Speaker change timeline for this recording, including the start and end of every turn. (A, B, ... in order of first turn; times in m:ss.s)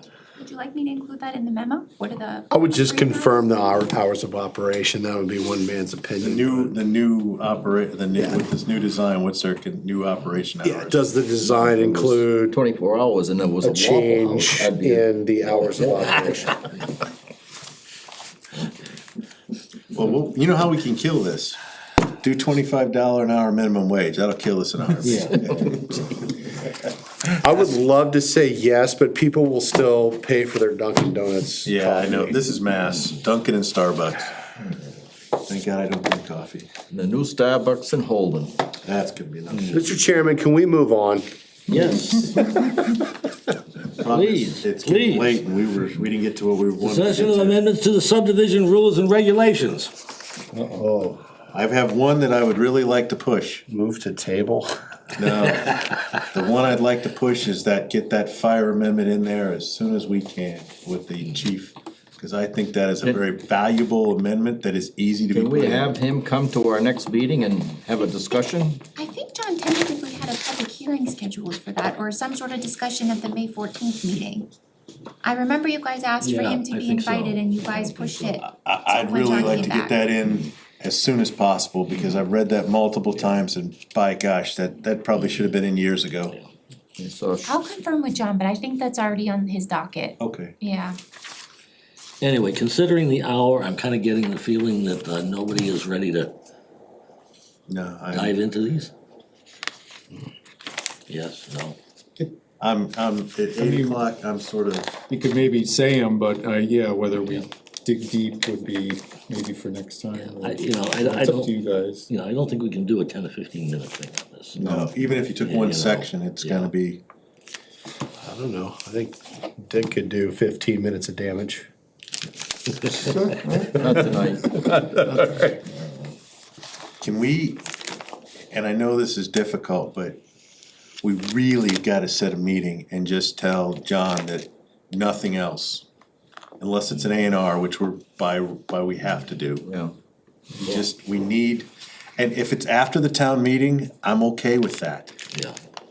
0:00.4-0:03.7 A
0:02.5-0:06.7 B
0:06.2-0:11.0 C
0:08.1-0:08.4 B
0:10.6-0:12.6 B
0:11.4-0:16.3 D
0:13.6-0:16.6 B
0:18.5-0:18.9 E
0:19.9-0:21.6 C
0:22.2-0:26.2 C
0:25.0-0:25.7 E
0:27.3-0:32.4 B
0:31.6-0:34.3 C
0:35.4-0:36.7 C
0:36.9-0:38.6 D
0:38.8-0:39.8 C
0:39.7-0:41.2 B
0:41.7-0:42.4 D
0:43.9-0:47.6 C
0:44.0-0:45.4 E
0:46.8-0:49.9 E
0:50.6-0:51.2 B
0:51.5-0:53.6 C
0:53.7-0:54.7 B
0:55.2-1:06.0 C
1:05.3-1:08.8 D
1:09.0-1:14.5 A
1:15.2-1:20.0 A
1:16.2-1:18.4 E
1:18.4-1:26.4 C
1:19.4-1:19.7 E
1:27.0-1:27.6 D
1:27.4-1:31.0 A
1:30.2-1:30.5 C
1:32.2-1:36.3 E
1:37.7-1:38.4 C
1:38.1-1:38.9 E
1:41.1-1:41.8 E
1:42.6-1:44.9 C
1:43.6-1:44.0 F
1:45.1-1:52.1 F
1:50.1-1:51.5 E
1:52.1-1:54.7 E
1:54.6-1:57.0 C
1:55.4-1:56.7 E
1:58.2-2:01.7 B
2:02.9-2:04.0 B
2:03.7-2:04.6 D
2:04.7-2:05.4 B
2:07.0-2:07.6 C
2:08.5-2:10.2 C
2:11.0-2:15.8 C
2:16.6-2:19.6 C
2:19.6-2:19.9 D
2:20.6-2:25.1 C